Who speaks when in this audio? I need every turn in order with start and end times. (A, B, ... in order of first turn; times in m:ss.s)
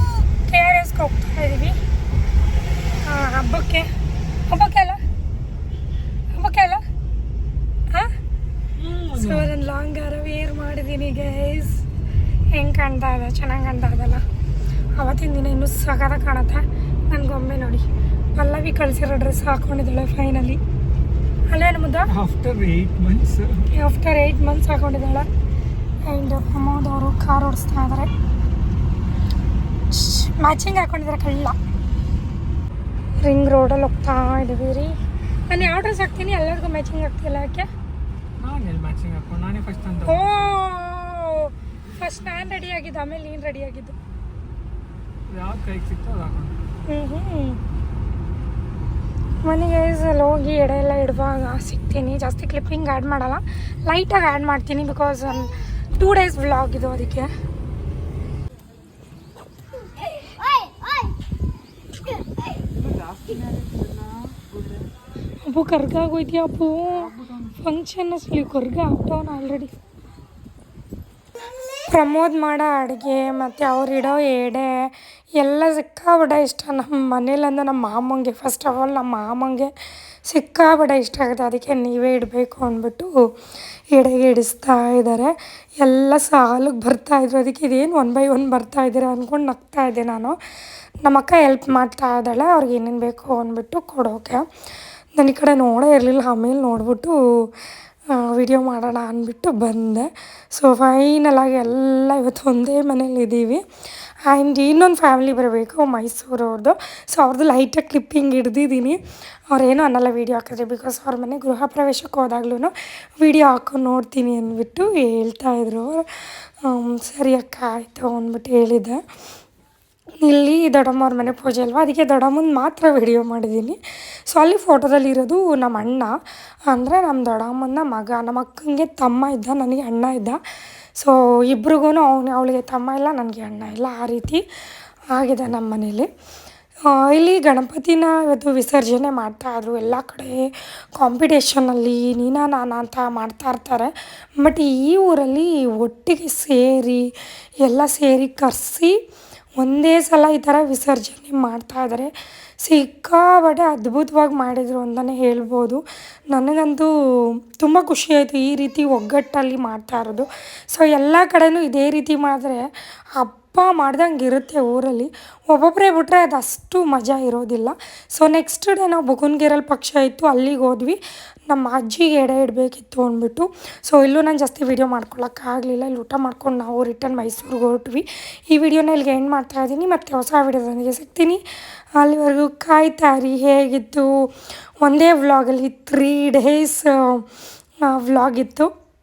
0:00.4-0:01.8 A
0:03.0-0:03.9 A
0:04.5-0:05.0 A
0:06.3-0:06.8 A
0:08.8-0:09.5 B
0:09.1-0:11.8 A
0:12.5-0:14.2 A
0:15.0-0:20.6 A
0:21.5-0:22.1 A
0:22.1-0:23.7 B
0:23.7-0:25.2 A
0:26.0-0:28.1 A
0:29.9-0:31.6 A
0:33.2-0:35.0 A
0:35.5-0:37.7 A
0:38.4-0:40.5 B
0:40.0-0:43.9 A
0:45.3-0:46.6 B
0:46.9-0:47.6 A
0:49.4-0:57.3 A
1:02.7-1:04.9 B
1:05.4-1:09.8 A
1:06.9-1:07.6 B
1:11.9-1:19.7 A
1:20.2-1:23.1 A
1:23.9-1:30.4 A
1:31.0-1:34.4 A
1:35.2-1:37.5 A
1:38.1-1:43.6 A
1:44.2-1:49.0 A
1:49.5-1:59.0 A
2:00.2-2:06.1 A
2:06.7-2:10.4 A
2:11.0-2:14.4 A
2:15.1-2:16.1 A
2:16.9-2:20.4 A
2:21.0-2:27.0 A
2:27.6-2:29.0 A
2:29.6-2:36.9 A
2:37.6-2:51.0 A
2:51.5-3:01.4 A
3:02.0-3:04.3 A
3:04.8-3:07.2 A
3:07.9-3:08.7 A